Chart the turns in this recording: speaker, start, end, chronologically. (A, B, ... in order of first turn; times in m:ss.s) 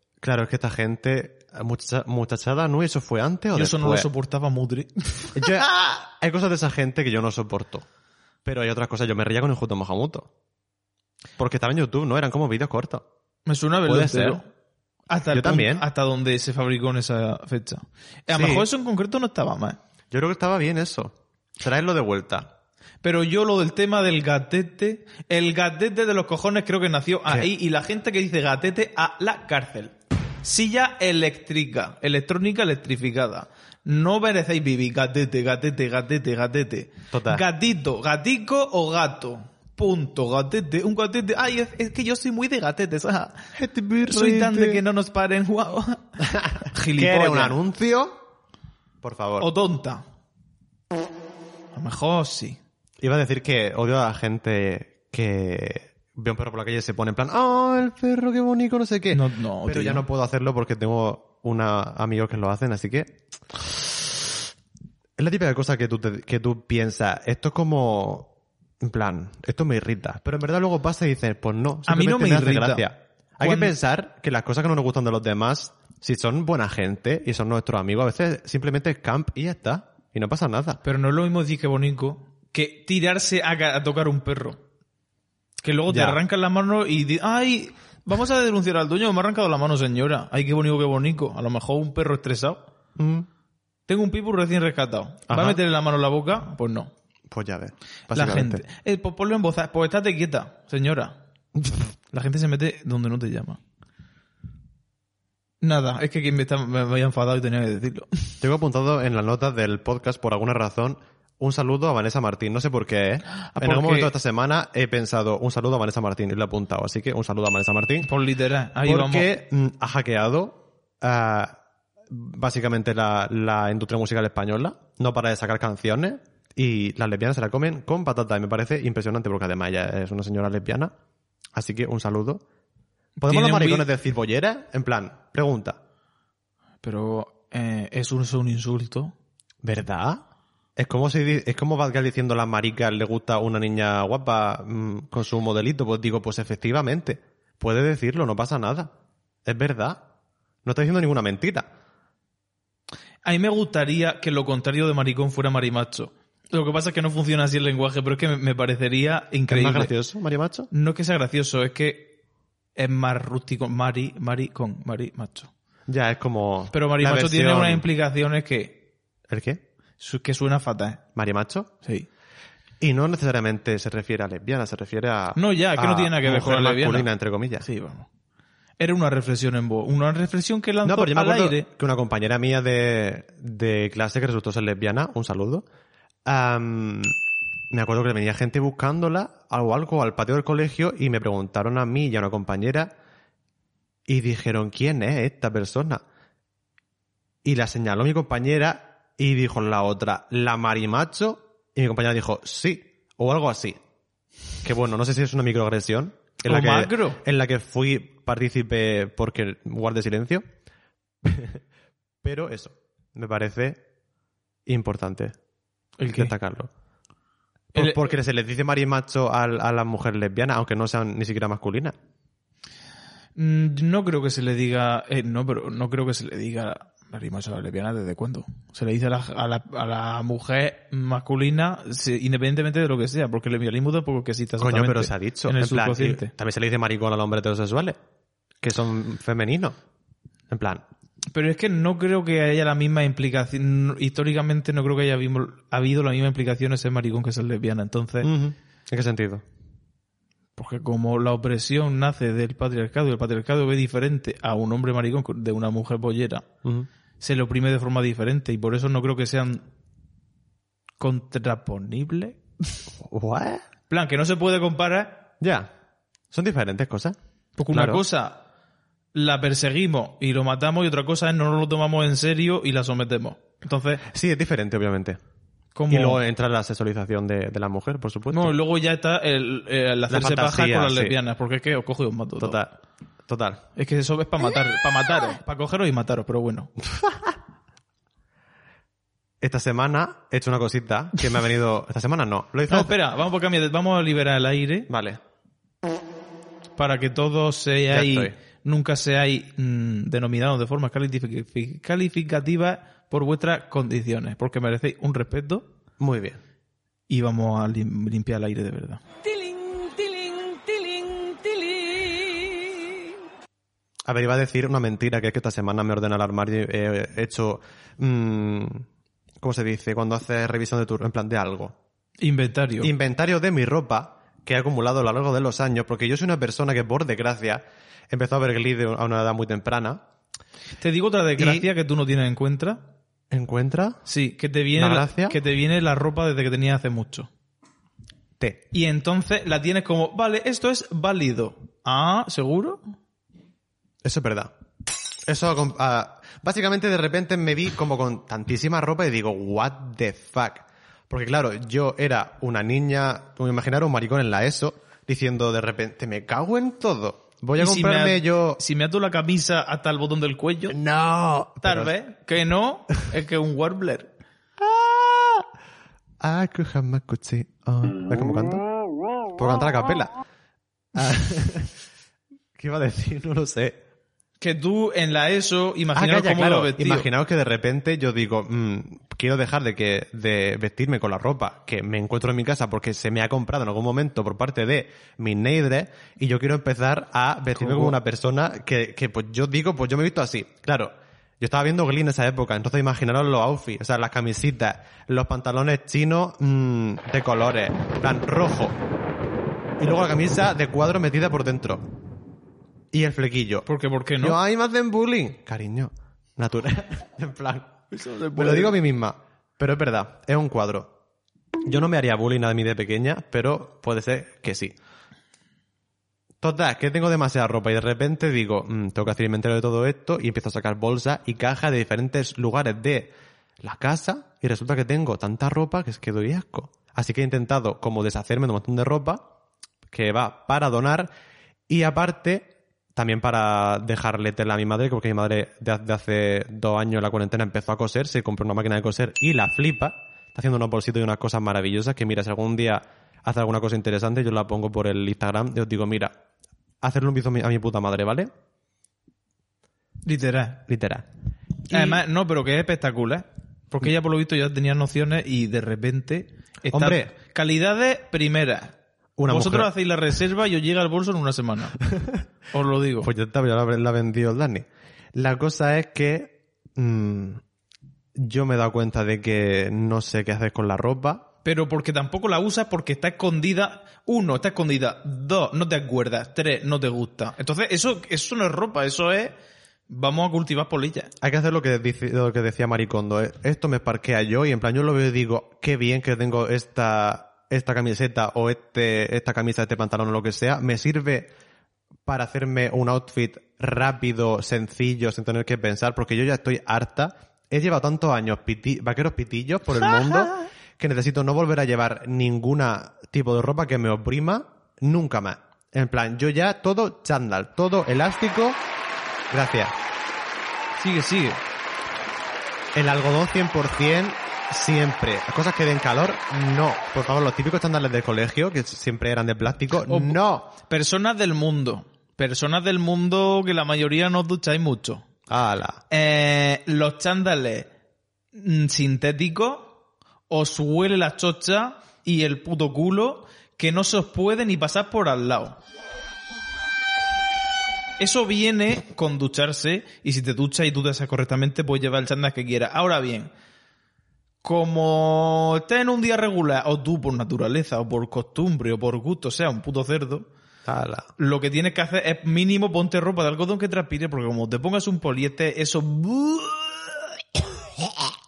0:00.2-0:04.1 A
0:03.6-0:05.5 B
0:05.4-0:07.9 A
0:08.4-0:10.3 A
0:11.4-0:13.1 A
0:13.5-0:14.5 B
0:13.8-0:14.4 A
0:15.1-0:19.8 B
0:15.3-0:15.8 A
0:18.3-0:18.7 A
0:20.1-0:22.5 A
0:23.0-0:43.5 B
0:37.1-0:37.4 A
0:43.6-0:44.8 A
0:44.1-0:46.2 B
0:46.2-0:48.2 A
0:46.7-0:47.6 B
0:49.0-0:49.5 A
0:49.4-0:50.0 B
0:51.8-0:52.6 B
0:53.0-1:04.4 A
0:59.1-1:00.0 B
1:05.2-1:08.3 A
1:08.8-1:20.8 A
1:11.9-1:12.9 B
1:13.4-1:13.7 B
1:20.8-1:24.6 B
1:25.6-1:32.6 B
1:25.9-1:26.2 A
1:33.0-1:33.3 A
1:33.9-1:36.9 B
1:35.3-1:35.6 A
1:37.3-1:38.6 A
1:38.1-1:41.2 B
1:42.1-1:43.6 B
1:45.6-1:48.4 B
1:48.4-1:58.1 A
1:53.4-1:54.1 B
1:58.0-1:59.3 B
1:58.8-2:01.6 A
2:02.1-2:10.9 A
2:11.5-2:12.4 A
2:13.2-2:13.9 B
2:13.2-2:15.8 A
2:16.8-2:19.1 B
2:19.6-2:20.2 A
2:20.8-2:28.9 A
2:29.5-2:30.0 A
2:30.6-2:31.7 A
2:33.2-2:39.9 B
2:39.5-2:40.7 A
2:40.7-2:42.2 B
2:42.8-2:45.5 B
2:45.9-2:47.8 A
2:46.7-2:48.8 B
2:49.3-2:49.6 A
2:50.0-2:51.0 B
2:51.2-2:51.7 A
2:51.8-2:52.1 B
2:52.8-2:57.7 A
2:55.4-2:57.1 B
2:57.6-2:58.1 B
2:58.8-3:01.7 B
3:00.8-3:05.6 A
3:06.3-3:07.2 A
3:07.7-3:12.9 A
3:14.1-3:16.0 A
3:17.4-3:23.8 A
3:24.6-3:30.4 A
3:26.4-3:27.2 B
3:31.2-3:31.6 A
3:32.2-3:33.8 A
3:34.7-3:35.3 A
3:36.0-3:36.3 B
3:36.1-3:36.7 A
3:37.7-3:42.0 A
3:37.8-3:38.0 B
3:43.4-3:56.3 B
3:54.6-3:58.0 A
3:58.6-3:59.8 A
4:00.5-4:00.8 A
4:01.3-4:08.3 B
4:08.2-4:09.4 A
4:10.6-4:16.4 B
4:17.2-4:19.6 B
4:21.0-4:22.4 B
4:23.0-4:23.6 A
4:23.9-4:25.3 B
4:25.4-4:25.7 A
4:26.3-4:27.2 A
4:27.6-4:28.4 B
4:27.7-4:28.0 A
4:29.1-4:34.0 B
4:34.1-4:35.2 A
4:35.8-4:36.2 B
4:35.9-4:38.5 A
4:38.3-4:42.6 B
4:40.1-4:41.2 A
4:42.4-4:42.7 A
4:43.3-4:43.6 A
4:43.8-4:46.7 B
4:46.9-4:47.3 A
4:49.4-4:52.9 A
4:52.7-4:54.9 B
4:54.9-4:55.2 A
4:56.8-5:05.7 B
4:57.9-4:58.3 A
5:06.0-5:06.4 A
5:07.1-5:09.0 B
5:09.4-5:11.9 C
5:14.1-5:18.9 A
5:19.4-5:21.8 A
5:22.2-5:22.9 B
5:22.8-5:30.0 A
5:30.8-5:32.8 B
5:31.4-5:31.7 A
5:33.3-5:34.0 A
5:34.1-5:37.3 B
5:34.7-5:35.4 A
5:38.7-5:42.8 B
5:44.0-5:44.5 A
5:45.3-5:58.6 A
5:57.6-6:00.8 B
6:00.7-6:01.9 A
6:01.6-6:04.1 B
6:04.6-6:05.5 A
6:06.2-6:08.6 A
6:09.4-6:10.2 A
6:11.0-6:11.8 A
6:12.6-6:13.8 A
6:14.4-6:17.1 B
6:16.0-6:38.8 A
6:27.6-6:28.0 B
6:39.8-6:41.9 A
6:42.9-6:43.7 A
6:43.7-6:44.4 B
6:44.2-6:47.7 A
6:47.9-6:48.8 B
6:48.4-6:50.9 A
6:51.6-6:54.8 A
6:56.4-7:09.2 A
7:09.9-7:11.1 A
7:11.7-7:26.1 A
7:26.8-7:28.3 A
7:30.1-7:30.6 B
7:30.7-7:31.1 A
7:31.7-7:32.0 A
7:31.7-7:38.7 B
7:36.7-7:37.1 A
7:39.2-7:39.7 A
7:39.3-7:41.8 B
7:41.9-7:42.2 A
7:42.5-7:43.1 B
7:43.0-7:47.4 A
7:48.2-7:51.3 A
7:51.4-7:59.3 B
7:59.9-8:01.1 B
8:01.2-8:11.3 A
8:12.1-8:28.6 A
8:29.3-8:29.7 A
8:30.8-8:31.4 B
8:32.8-8:40.5 A
8:39.9-8:45.1 B
8:45.3-8:45.8 A
8:45.9-8:47.7 B
8:48.3-8:49.8 B
8:50.3-8:55.6 B
8:58.0-9:03.3 B
9:04.4-9:10.3 B
9:10.7-9:11.1 A
9:11.2-9:16.9 B